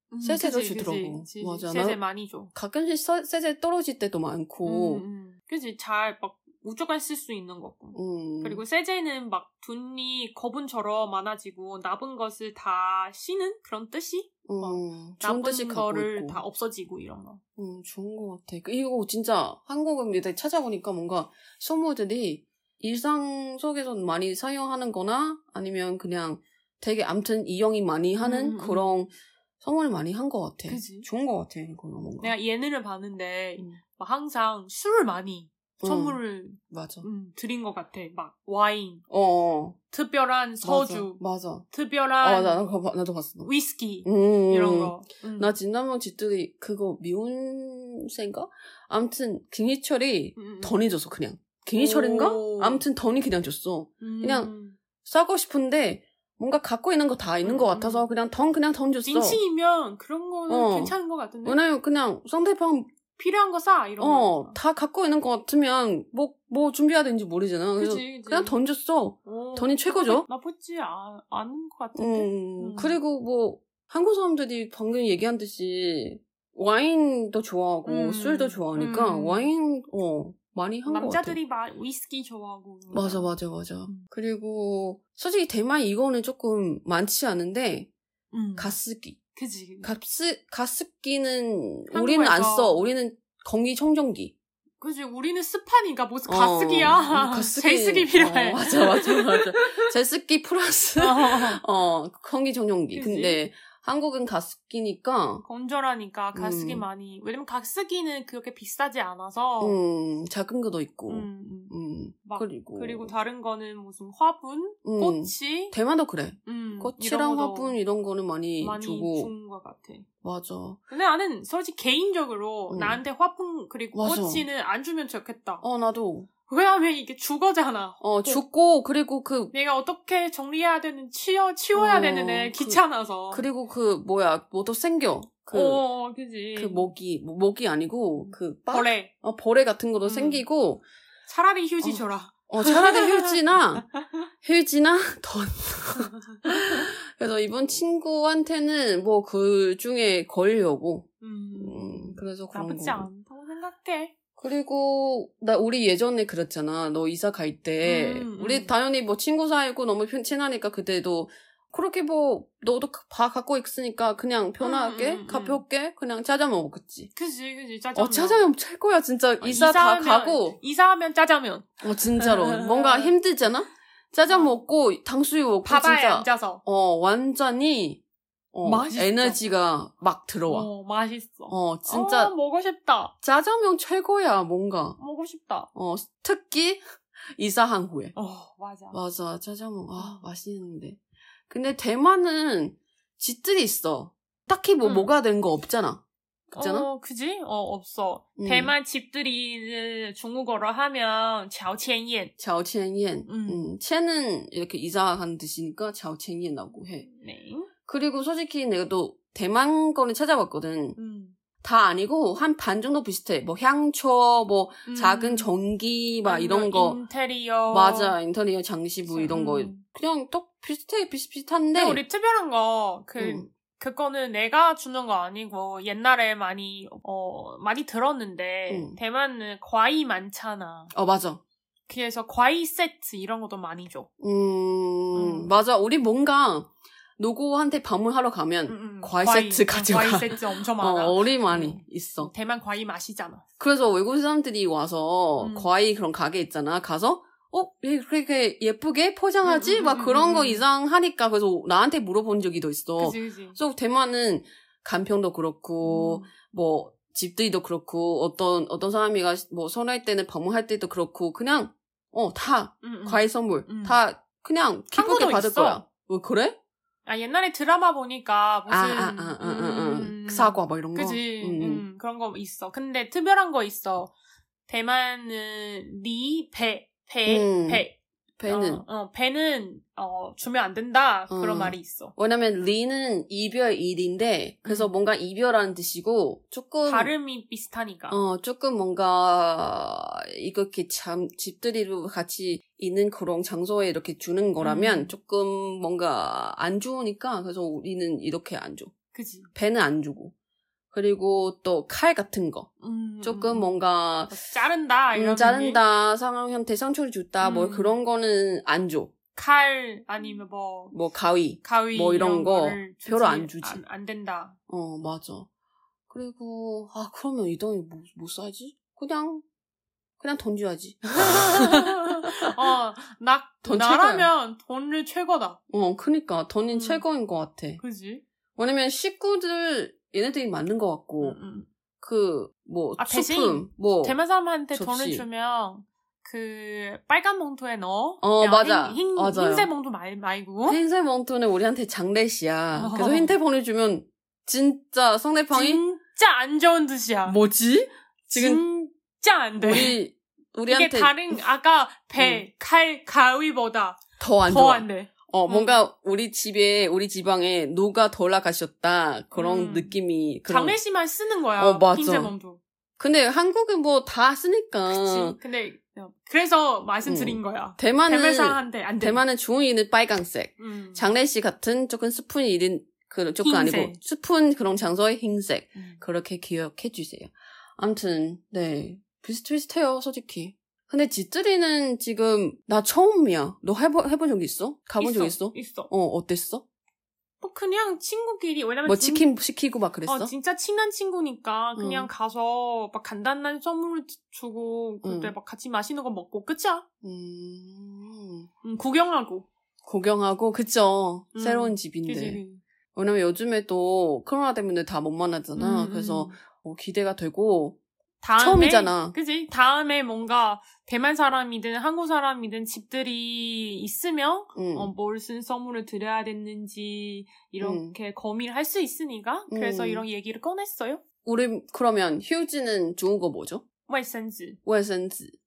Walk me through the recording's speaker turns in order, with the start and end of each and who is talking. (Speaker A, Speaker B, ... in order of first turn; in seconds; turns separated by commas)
Speaker A: 0.1-2.5, Speaker B: 0.2-2.0, Speaker B: 2.5-5.0, Speaker A: 4.7-17.4, Speaker B: 8.0-8.6, Speaker B: 14.5-16.4, Speaker B: 17.6-32.4, Speaker A: 28.2-28.9, Speaker A: 30.7-31.1, Speaker A: 32.2-39.0, Speaker B: 35.8-36.2, Speaker B: 36.7-37.1, Speaker B: 39.1-39.8, Speaker A: 39.9-42.6, Speaker B: 40.6-41.7, Speaker B: 42.2-43.5, Speaker A: 43.4-45.5, Speaker B: 44.0-54.5, Speaker A: 50.4-50.8, Speaker A: 51.8-52.9, Speaker A: 54.0-54.8, Speaker B: 55.0-59.4, Speaker A: 57.5-58.1, Speaker A: 59.0-61.6, Speaker B: 60.5-63.0, Speaker A: 63.1-64.6, Speaker B: 64.0-70.3, Speaker A: 67.8-68.6, Speaker A: 69.2-73.0, Speaker B: 72.0-81.4, Speaker A: 77.9-79.5, Speaker A: 80.9-83.3, Speaker B: 82.9-87.9, Speaker A: 88.3-88.8, Speaker B: 88.6-89.2, Speaker A: 89.3-89.9, Speaker B: 89.8-94.3, Speaker A: 91.9-92.8, Speaker A: 94.8-99.9, Speaker B: 96.3-105.5, Speaker A: 101.0-101.6, Speaker A: 102.9-103.4, Speaker A: 105.5-109.8, Speaker B: 106.3-106.8, Speaker B: 109.6-113.1, Speaker A: 111.1-115.8, Speaker B: 114.8-119.3, Speaker A: 116.5-117.8, Speaker A: 118.6-120.0, Speaker B: 120.2-120.8, Speaker A: 120.9-125.6, Speaker B: 122.7-123.0, Speaker B: 123.9-124.5, Speaker B: 125.6-126.3, Speaker A: 126.5-128.4, Speaker B: 128.0-129.5, Speaker A: 129.5-133.5, Speaker B: 131.8-135.8, Speaker A: 135.5-136.9, Speaker B: 136.6-140.8, Speaker A: 138.2-139.1, Speaker A: 140.0-140.4, Speaker A: 141.3-143.4, Speaker B: 141.8-143.8, Speaker B: 144.4-153.1, Speaker A: 146.4-146.8, Speaker A: 151.2-154.2, Speaker B: 154.4-167.1, Speaker A: 157.8-158.7, Speaker A: 164.6-165.6, Speaker A: 167.2-168.5, Speaker B: 167.9-170.6, Speaker A: 169.4-173.2, Speaker B: 171.8-178.0, Speaker A: 174.3-174.6, Speaker A: 175.6-176.6, Speaker B: 178.5-180.7, Speaker A: 178.6-179.4, Speaker A: 180.5-183.2, Speaker B: 181.5-182.3, Speaker B: 183.2-185.0, Speaker A: 185.0-185.7, Speaker B: 185.7-186.8, Speaker B: 187.3-188.2, Speaker A: 188.2-189.0, Speaker B: 188.9-196.0, Speaker A: 190.0-190.2, Speaker A: 194.8-195.1, Speaker A: 196.5-202.3, Speaker B: 196.6-196.9, Speaker B: 198.4-198.7, Speaker B: 202.4-207.1, Speaker A: 203.3-203.7, Speaker A: 207.0-207.7, Speaker B: 207.9-211.0, Speaker A: 211.0-211.4, Speaker B: 211.6-217.0, Speaker A: 214.9-215.5, Speaker A: 216.2-218.2, Speaker B: 217.7-222.0, Speaker A: 219.1-219.8, Speaker A: 221.7-230.9, Speaker B: 223.2-223.5, Speaker B: 228.7-229.0, Speaker B: 230.9-231.4, Speaker A: 231.9-234.1, Speaker B: 234.2-242.3, Speaker A: 235.1-235.5, Speaker A: 238.7-243.4, Speaker B: 243.6-266.6, Speaker A: 245.4-245.7, Speaker A: 249.4-250.7, Speaker A: 253.0-253.6, Speaker A: 255.8-256.3, Speaker A: 262.8-264.0, Speaker A: 264.9-265.8, Speaker A: 267.1-274.1, Speaker B: 268.7-271.9, Speaker A: 274.7-282.1, Speaker B: 277.3-277.9, Speaker B: 278.4-278.8, Speaker B: 281.3-287.1, Speaker A: 284.6-284.9, Speaker A: 286.9-288.2, Speaker B: 288.1-298.9, Speaker A: 294.6-295.1, Speaker A: 299.1-299.5, Speaker B: 299.6-300.3, Speaker B: 300.9-302.7, Speaker A: 302.8-303.7, Speaker B: 303.2-304.4, Speaker A: 304.3-305.8, Speaker B: 305.1-309.1, Speaker A: 307.4-308.0, Speaker A: 309.4-311.0, Speaker B: 310.9-313.8, Speaker A: 311.6-314.6, Speaker B: 314.7-315.5, Speaker B: 316.1-319.4, Speaker B: 320.2-322.5, Speaker A: 321.2-325.6, Speaker B: 323.6-324.3, Speaker B: 325.7-327.8, Speaker A: 326.7-327.1, Speaker A: 327.8-328.2, Speaker B: 328.6-331.4, Speaker A: 331.2-331.7, Speaker B: 332.0-334.2, Speaker A: 333.0-340.8, Speaker B: 334.7-335.2, Speaker B: 338.2-339.7, Speaker B: 340.7-345.8, Speaker A: 342.8-343.4, Speaker A: 345.5-347.4, Speaker B: 347.3-348.6, Speaker A: 348.3-350.0, Speaker B: 349.6-351.4, Speaker A: 350.7-355.8, Speaker B: 352.2-352.4, Speaker B: 354.2-360.8, Speaker A: 359.3-362.6, Speaker B: 361.6-362.3, Speaker B: 363.0-365.4, Speaker A: 364.9-369.2, Speaker B: 367.1-386.6, Speaker A: 370.6-371.1, Speaker A: 373.4-374.0, Speaker A: 375.8-376.0, Speaker A: 385.0-385.9, Speaker A: 387.4-389.3, Speaker B: 388.9-390.3, Speaker A: 390.0-396.9, Speaker B: 391.8-392.1, Speaker B: 395.0-395.3, Speaker B: 397.0-398.5, Speaker A: 398.6-399.5, Speaker B: 399.9-402.4, Speaker A: 401.3-402.6, Speaker B: 402.9-407.8, Speaker A: 405.6-406.4, Speaker A: 408.2-421.0, Speaker B: 408.4-409.2, Speaker B: 414.6-414.9, Speaker B: 417.6-418.0, Speaker B: 419.5-420.1, Speaker B: 421.2-423.6, Speaker A: 423.9-424.6, Speaker B: 424.7-425.4